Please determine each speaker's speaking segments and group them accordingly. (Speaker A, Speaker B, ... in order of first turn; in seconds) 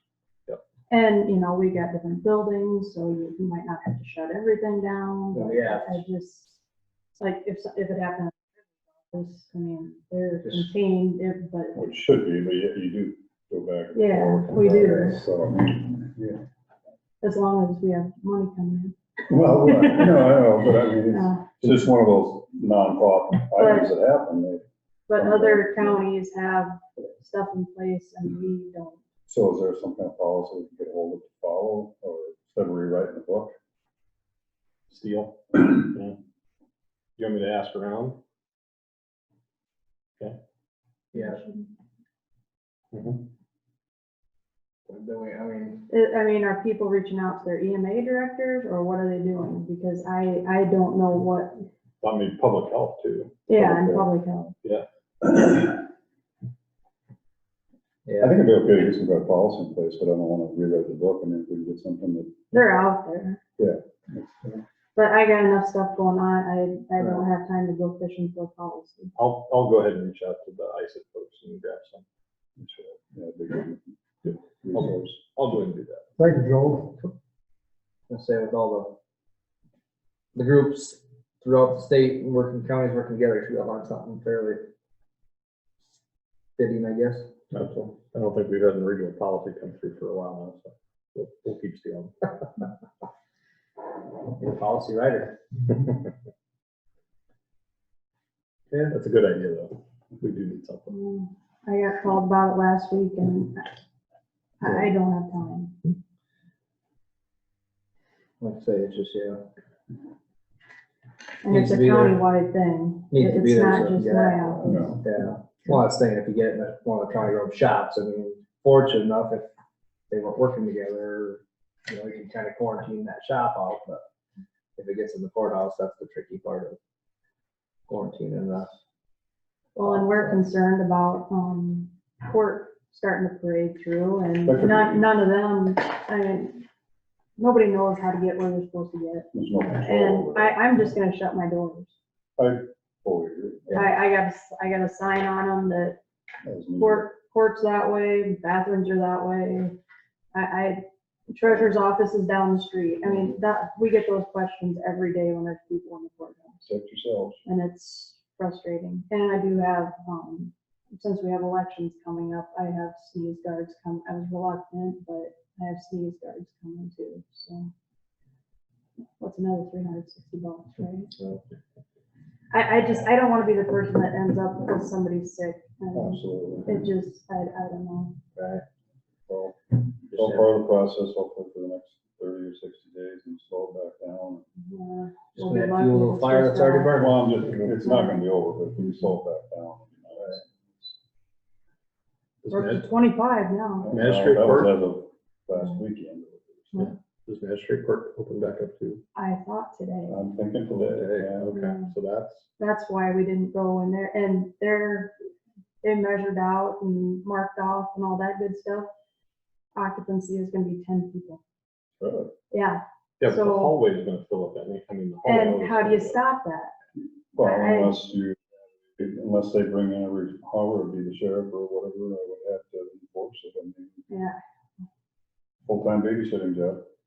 Speaker A: 0.9-6.6, 7.2-8.4, 9.1-11.8, 13.9-15.2, 17.2-19.0, 19.5-20.4, 21.1-21.5, 23.6-23.9, 25.1-29.0, 41.1-41.7, 45.9-51.6, 53.5-54.5, 62.5-63.4, 64.9-69.1, 100.9-103.8, 104.6-105.8, 111.4-114.9, 129.8-136.7, 137.4-141.9, 143.7-146.0, 146.8-149.8, 150.3-156.7, 157.4-167.7, 169.2-171.1, 172.5-178.2, 184.6-187.0, 187.8-188.2, 192.5-193.9, 199.1-200.2, 201.5-201.9, 202.6-205.1, 205.8-208.9, 209.7-211.4, 212.5-213.8, 215.2-216.7, 217.4-218.1, 224.1-224.4
Speaker B: 5.3-6.0, 10.4-10.7, 14.8-15.0, 41.1-41.4, 44.9-45.9, 58.1-58.4, 67.0-67.2, 78.1-79.0, 80.3-84.6, 86.6-87.3, 94.4-95.4, 108.4-109.4, 111.5-112.2, 113.1-119.5, 120.1-124.0, 124.8-126.8, 127.9-128.8, 129.8-130.3, 178.3-178.6, 180.2-180.4, 185.4-187.3
Speaker C: 11.7-16.4, 19.3-24.6, 25.1-26.0, 29.3-33.5, 53.5-54.1, 55.2-55.8, 58.2-62.5, 63.6-64.6, 72.6-75.2, 76.4-76.7, 114.6-115.0, 134.4-135.1, 139.3-140.6, 142.4-143.8, 146.4-147.1, 156.7-157.4, 175.9-176.8, 179.3-184.4, 186.9-190.9, 193.8-196.9, 200.1-201.5, 212.0-212.3, 217.0-224.0, 225.7-226.8
Speaker D: 34.9-36.2, 37.2-38.2, 42.9-43.3, 52.0-53.3, 69.1-72.0, 74.2-76.1, 87.5-92.6, 98.7-100.9, 192.4-192.8, 193.9-194.7, 196.8-199.0, 200.7-202.4, 213.2-216.2